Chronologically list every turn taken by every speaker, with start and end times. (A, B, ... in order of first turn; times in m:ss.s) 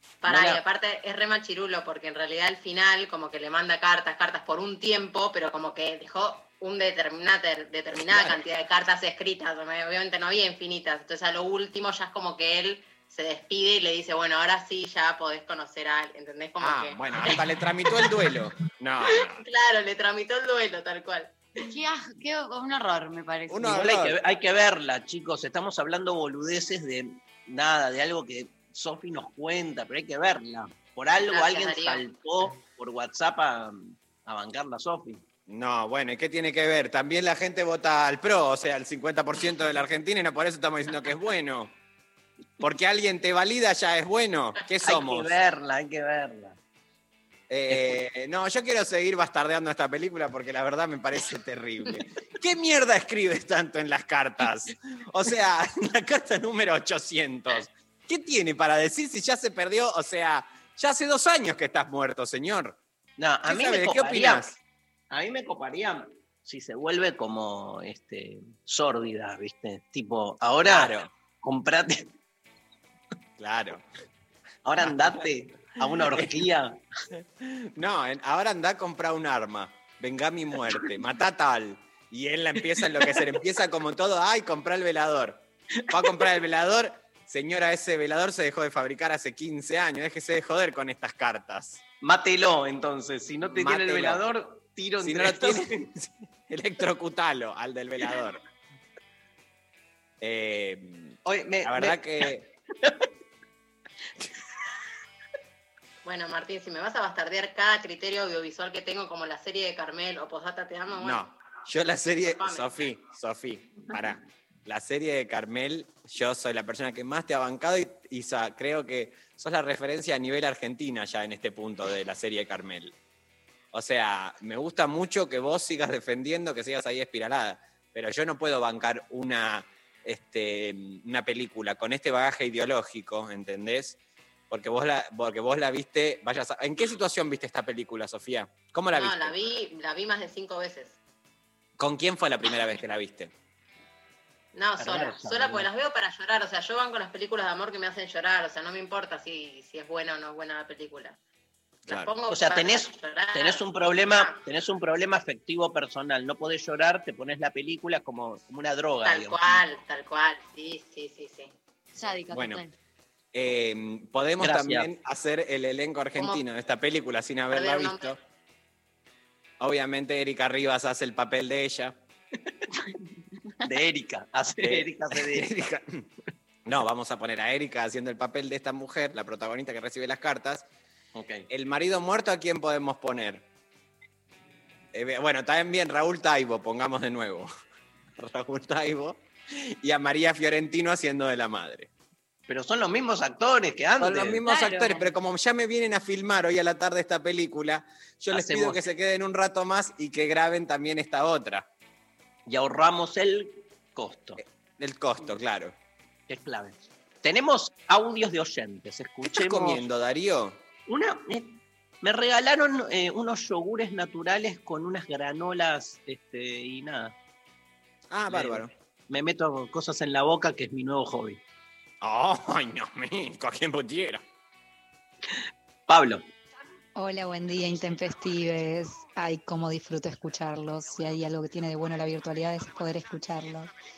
0:00.2-0:17.4 A
0:00.2-0:00.6 B
0:16.6-0:19.4 C
0:19.3-0:21.4 A
0:21.6-0:23.8 D
0:23.5-0:24.1 C
0:23.7-0:35.2 B
0:31.2-0:32.0 A
0:35.5-0:41.7 C
0:42.6-0:45.3 C
0:44.8-0:46.6 B
0:47.5-1:02.8 C
0:47.7-0:48.0 B
1:03.2-1:04.5 B
1:03.4-1:04.6 C
1:05.1-1:12.1 B
1:10.6-1:11.1 C
1:13.4-1:13.8 C
1:14.6-1:16.8 B
1:17.1-1:31.8 C
1:26.0-1:26.2 B
1:32.0-1:35.8 B
1:33.4-1:34.2 C
1:35.0-1:38.4 C
1:40.2-1:42.4 C
1:41.2-1:42.0 B
1:46.0-1:51.2 A
1:51.0-2:02.9 C
1:52.3-1:52.7 A
2:03.7-2:14.0 C
2:14.5-2:19.3 C
2:18.9-2:21.0 A
2:21.8-2:23.3 C
2:24.5-2:31.2 A
2:24.8-2:25.7 B
2:31.9-2:34.4 A
2:32.3-2:39.6 B
2:39.0-2:41.5 A
2:41.9-2:42.7 D
2:42.3-2:42.6 C
2:43.3-2:48.2 C
2:44.4-2:44.9 B
2:46.2-2:46.4 A
2:47.5-2:48.1 A
2:49.6-2:52.0 C
2:53.6-2:55.5 B
2:54.6-2:56.0 C
2:56.6-3:00.6 C
3:01.1-3:01.5 B
3:01.5-3:03.4 C
3:04.9-3:07.5 C
3:08.2-3:11.9 C
3:12.5-3:14.4 B
3:14.0-3:21.6 C
3:14.4-3:15.1 D
3:18.3-3:18.8 B
3:22.4-3:24.4 B
3:24.4-3:25.7 C
3:26.3-3:29.8 B
3:29.2-3:30.6 C
3:30.9-3:37.1 B
3:38.1-3:38.7 C
3:38.3-3:41.4 B
3:42.0-3:44.2 C
3:45.9-3:46.3 B
3:47.0-3:53.7 E